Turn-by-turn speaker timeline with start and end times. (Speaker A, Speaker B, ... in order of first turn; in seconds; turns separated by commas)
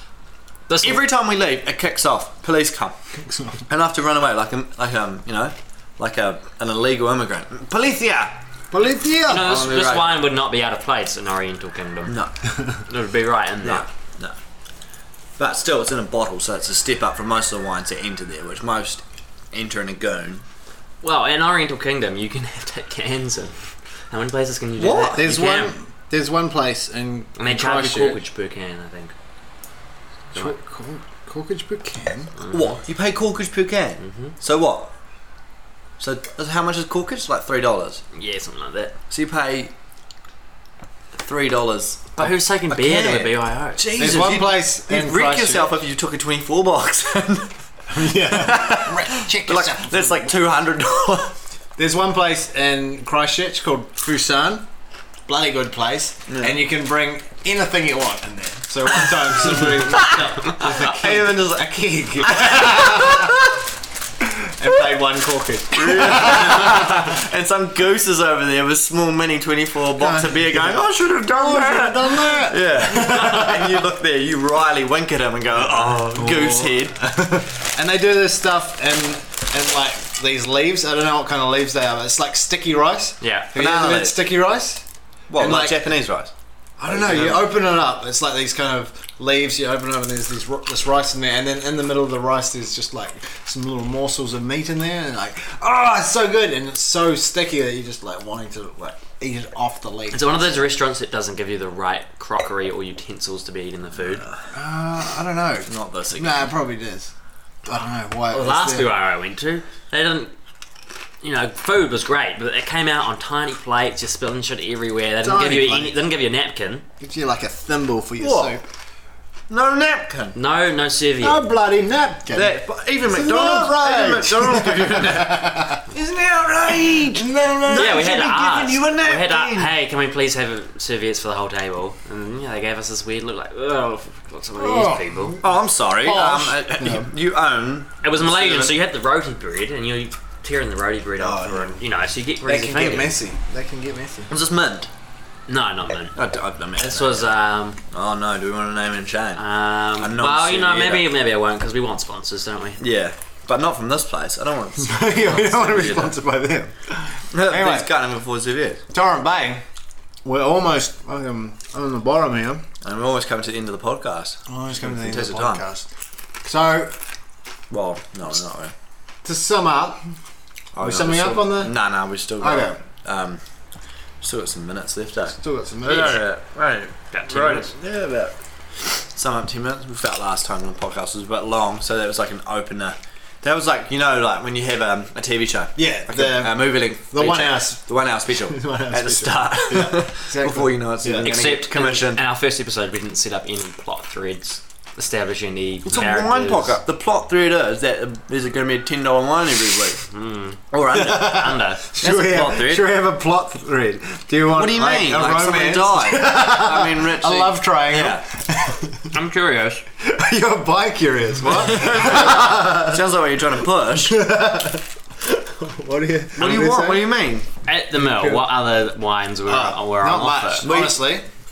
Speaker A: 0.7-1.0, Speaker B: 0.8-2.9, Speaker C: 3.2-3.6, Speaker B: 3.7-8.4, Speaker C: 8.7-9.5, Speaker A: 9.3-12.2, Speaker B: 9.3-10.2, Speaker B: 12.1-12.3, Speaker A: 12.8-13.9, Speaker B: 13.6-14.3, Speaker B: 15.4-20.4, Speaker A: 21.0-25.7, Speaker B: 24.8-25.2, Speaker C: 25.1-28.2, Speaker A: 27.4-29.1, Speaker C: 30.3-32.3, Speaker A: 32.4-32.8, Speaker B: 32.5-34.9, Speaker A: 34.0-34.3, Speaker B: 36.0-38.0, Speaker A: 38.1-38.9, Speaker B: 39.1-39.7, Speaker B: 41.1-47.5, Speaker A: 42.2-43.8, Speaker C: 44.0-45.8, Speaker C: 47.9-50.3, Speaker B: 48.1-51.3, Speaker C: 51.8-54.7, Speaker C: 55.3-63.4, Speaker B: 56.3-56.6, Speaker B: 59.0-63.6, Speaker A: 60.0-60.9, Speaker C: 64.2-67.1, Speaker B: 65.7-77.0, Speaker C: 70.0-73.8, Speaker C: 75.8-84.8, Speaker A: 83.2-83.5, Speaker B: 83.5-84.2, Speaker B: 85.3-86.3, Speaker C: 85.3-85.8, Speaker C: 86.8-100.7, Speaker B: 86.9-87.5, Speaker A: 100.1-104.2, Speaker C: 104.5-107.1, Speaker B: 105.7-106.5, Speaker C: 107.6-108.9, Speaker A: 108.3-110.3, Speaker A: 111.2-116.8, Speaker C: 115.2-116.1, Speaker C: 117.0-118.6, Speaker B: 118.2-118.5, Speaker B: 119.5-120.3, Speaker A: 120.3-121.4, Speaker C: 121.2-125.8, Speaker B: 122.3-129.7, Speaker C: 126.7-128.0, Speaker A: 127.7-135.4, Speaker C: 134.6-135.5, Speaker B: 135.4-138.8, Speaker C: 136.0-137.1, Speaker A: 138.0-143.1, Speaker C: 141.2-141.8, Speaker C: 142.4-144.3, Speaker B: 144.3-144.9, Speaker A: 145.5-146.2, Speaker B: 146.2-147.3, Speaker A: 146.8-147.8, Speaker B: 147.9-149.4, Speaker A: 149.4-152.8, Speaker B: 150.0-151.1, Speaker B: 152.8-156.1, Speaker C: 154.8-157.9, Speaker B: 157.3-158.8, Speaker C: 158.9-159.6, Speaker C: 160.2-162.7, Speaker B: 162.8-165.6, Speaker C: 164.5-165.9, Speaker C: 166.4-167.0, Speaker B: 167.7-168.7, Speaker C: 169.2-170.0, Speaker B: 170.7-173.4, Speaker C: 170.8-171.7, Speaker C: 172.4-172.8, Speaker B: 174.2-192.2, Speaker C: 175.3-176.3, Speaker A: 177.1-177.7, Speaker C: 185.8-191.3, Speaker A: 191.2-196.8, Speaker B: 195.8-200.1, Speaker A: 200.1-202.7, Speaker B: 200.7-202.8, Speaker C: 201.0-209.1, Speaker B: 204.5-208.2, Speaker A: 209.1-209.8, Speaker C: 210.0-213.0, Speaker B: 211.5-214.2, Speaker C: 213.9-217.1, Speaker B: 216.3-217.5, Speaker A: 217.6-220.6, Speaker C: 217.9-218.5, Speaker C: 219.5-221.2, Speaker B: 220.6-221.1